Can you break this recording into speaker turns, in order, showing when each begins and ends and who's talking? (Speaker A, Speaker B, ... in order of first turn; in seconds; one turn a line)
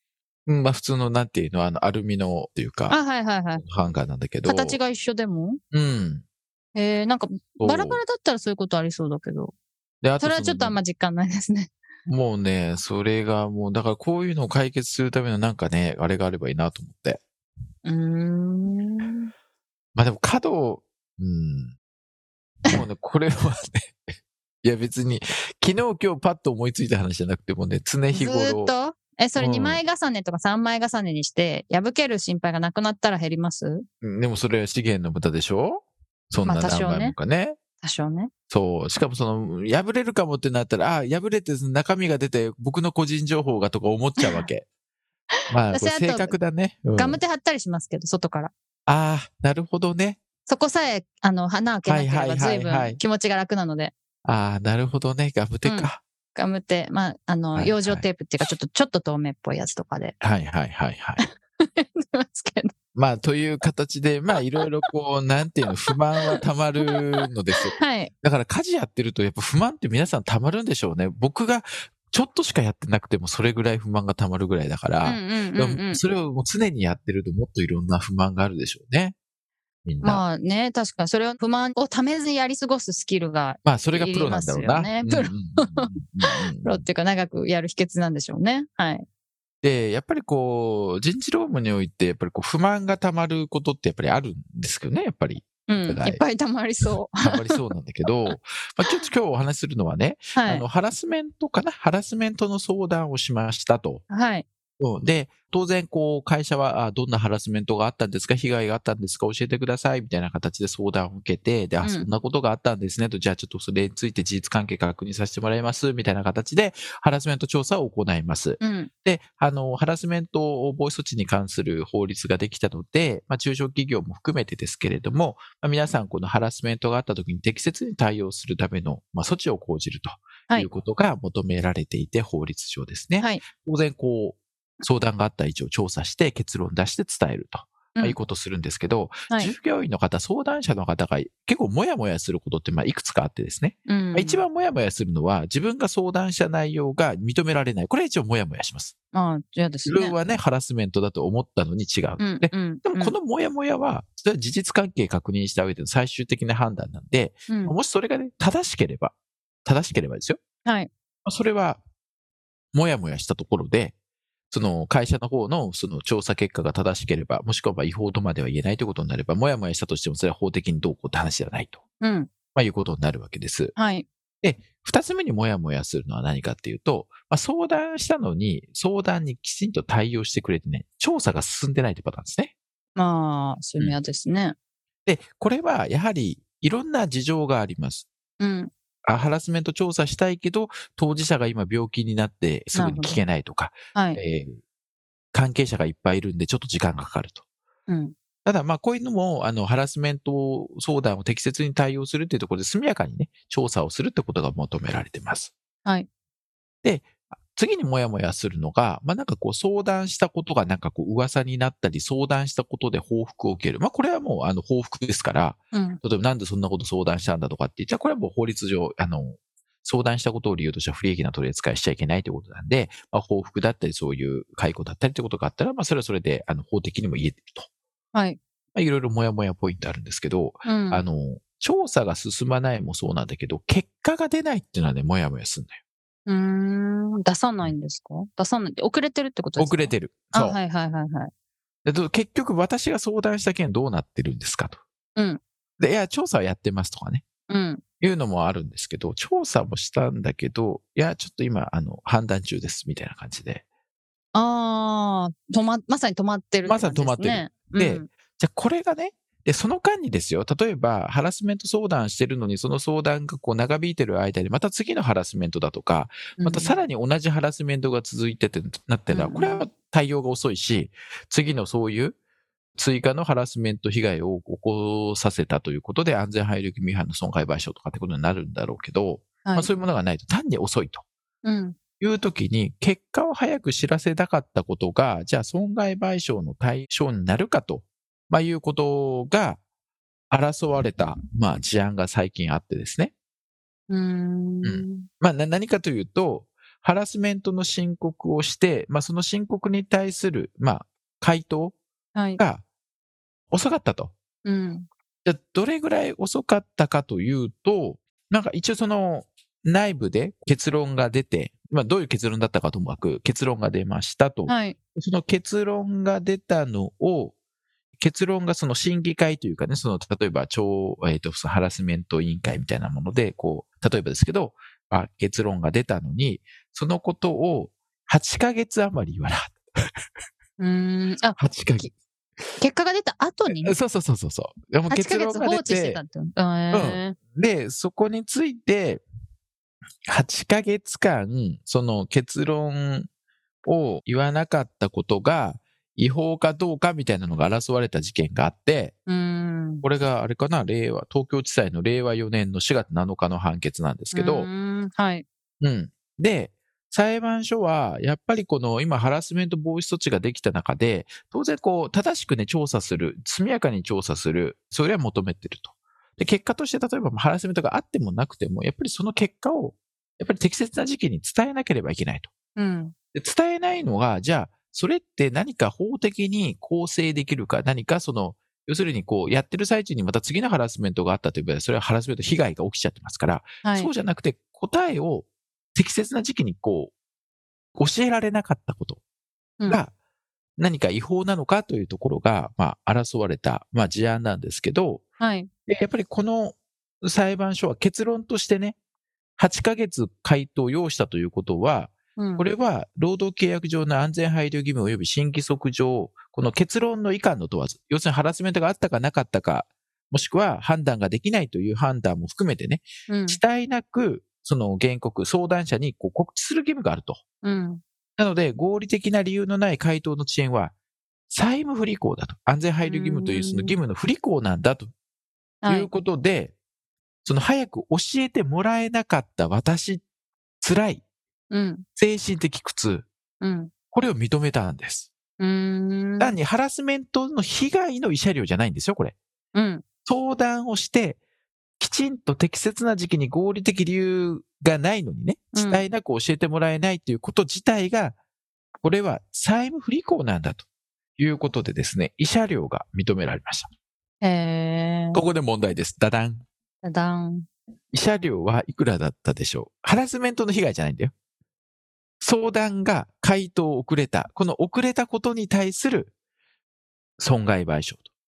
Speaker A: 0.5-3.0
Speaker B: 2.9-3.6
Speaker A: 3.6-4.8
Speaker B: 4.5-5.6
Speaker A: 5.7-6.2
Speaker B: 6.8-9.5
Speaker A: 7.6-8.0
Speaker A: 10.0-10.8
Speaker B: 10.2-11.7
Speaker A: 12.1-17.2
Speaker B: 17.9-19.3
Speaker A: 19.9-21.8
Speaker A: 22.7-24.0
Speaker A: 24.6-28.7
Speaker B: 28.1-33.9
Speaker A: 29.4-29.8
Speaker A: 34.0-37.6
Speaker B: 36.5-37.2
Speaker B: 37.8-38.3
Speaker A: 38.5-44.6
Speaker A: 45.5-47.2
Speaker B: 45.7-46.3
Speaker B: 47.0-48.5
Speaker A: 48.9-50.2
Speaker B: 50.5-53.9
Speaker A: 51.9-53.0
Speaker A: 54.2-56.0
Speaker B: 55.6-60.2
Speaker A: 57.6-58.0
Speaker A: 60.2-61.2
Speaker B: 61.6-62.7
Speaker A: 63.0-79.2
Speaker B: 67.8-68.1
Speaker B: 75.0-76.0
Speaker A: 79.8-80.2
Speaker B: 80.0-85.9
Speaker A: 83.7-86.8
Speaker B: 86.6-89.1
Speaker A: 89.6-96.2
Speaker B: 95.7-97.5
Speaker A: 97.2-104.0
Speaker B: 100.3-100.7
Speaker B: 104.1-104.5
Speaker A: 104.8-148.9
Speaker B: 111.8-112.1
Speaker B: 118.6-118.9
Speaker B: 143.9-144.4
Speaker B: 149.1-150.2
Speaker A: 149.8-160.4
Speaker B: 152.2-153.2
Speaker B: 157.5-157.8
Speaker A: 161.2-161.8
Speaker A: 162.7-163.9
Speaker A: 164.5-171.8
Speaker B: 172.0-172.3
Speaker A: 172.6-173.8
Speaker B: 173.8-174.1
Speaker A: 174.4-182.5
Speaker B: 183.0-184.6
Speaker A: 185.1-188.1
Speaker B: 188.4-188.7
Speaker A: 189.1-194.6
Speaker B: 192.8-193.2
Speaker B: 193.9-194.2
Speaker A: 195.3-197.4
Speaker B: 197.9-198.1
Speaker A: 198.4-205.5
Speaker A: 206.8-227.7
Speaker B: 215.7-216.0
Speaker B: 228.1-228.4
Speaker A: 228.8-235.8
Speaker B: 230.7-231.0
Speaker B: 236.3-241.3
Speaker A: 239.6-240.6
Speaker A: 241.8-244.8
Speaker A: 245.8-247.3
Speaker B: 247.5-247.8
Speaker A: 248.0-253.6
Speaker B: 254.3-258.1
Speaker A: 256.7-272.2
Speaker B: 266.4-266.8
Speaker B: 269.1-269.6
Speaker A: 272.8-281.1
Speaker B: 281.4-281.8
Speaker A: 282.0-289.6
Speaker A: 290.3-293.1
Speaker B: 293.9-295.1
Speaker A: 294.6-301.8
Speaker B: 302.1-302.4
Speaker A: 302.4-302.6
Speaker A: 303.5-304.1
Speaker B: 304.4-304.9
Speaker A: 305.2-317.4
Speaker B: 314.5-314.8
Speaker A: 318.0-329.6
Speaker B: 330.6-331.9
Speaker A: 331.4-331.9
Speaker B: 332.6-333.8
Speaker A: 333.5-336.0
Speaker B: 334.9-337.2
Speaker A: 336.7-339.0
Speaker A: 340.1-343.1
Speaker A: 343.7-348.9
Speaker B: 349.1-349.8
Speaker A: 349.8-354.5
Speaker B: 354.1-355.2
Speaker A: 355.6-372.3
Speaker B: 372.6-372.9
Speaker A: 373.1-386.9
Speaker B: 383.6-383.9
Speaker A: 387.8-389.0
Speaker A: 390.6-395.1
Speaker B: 395.2-395.5
Speaker A: 395.7-398.8
Speaker A: 399.4-417.2
Speaker B: 402.2-402.4
Speaker B: 413.1-413.4
Speaker B: 417.4-417.8
Speaker A: 418.2-420.7
Speaker A: 421.3-424.9
Speaker B: 422.9-423.8
Speaker B: 425.6-425.9
Speaker A: 425.7-426.6
Speaker A: 427.2-430.0
Speaker A: 430.6-431.0
Speaker B: 431.5-431.9
Speaker A: 432.0-433.1
Speaker B: 433.4-433.7
Speaker A: 433.9-435.1
Speaker B: 435.4-436.4
Speaker A: 436.2-439.2
Speaker B: 439.6-439.8
Speaker A: 440.1-441.2
Speaker A: 441.8-448.2
Speaker B: 445.6-445.8
Speaker A: 448.8-450.7
Speaker A: 451.2-453.7
Speaker B: 454.2-455.2
Speaker A: 455.1-456.4
Speaker B: 456.8-457.5
Speaker A: 457.9-461.1
Speaker A: 462.2-466.1
Speaker A: 467.2-468.1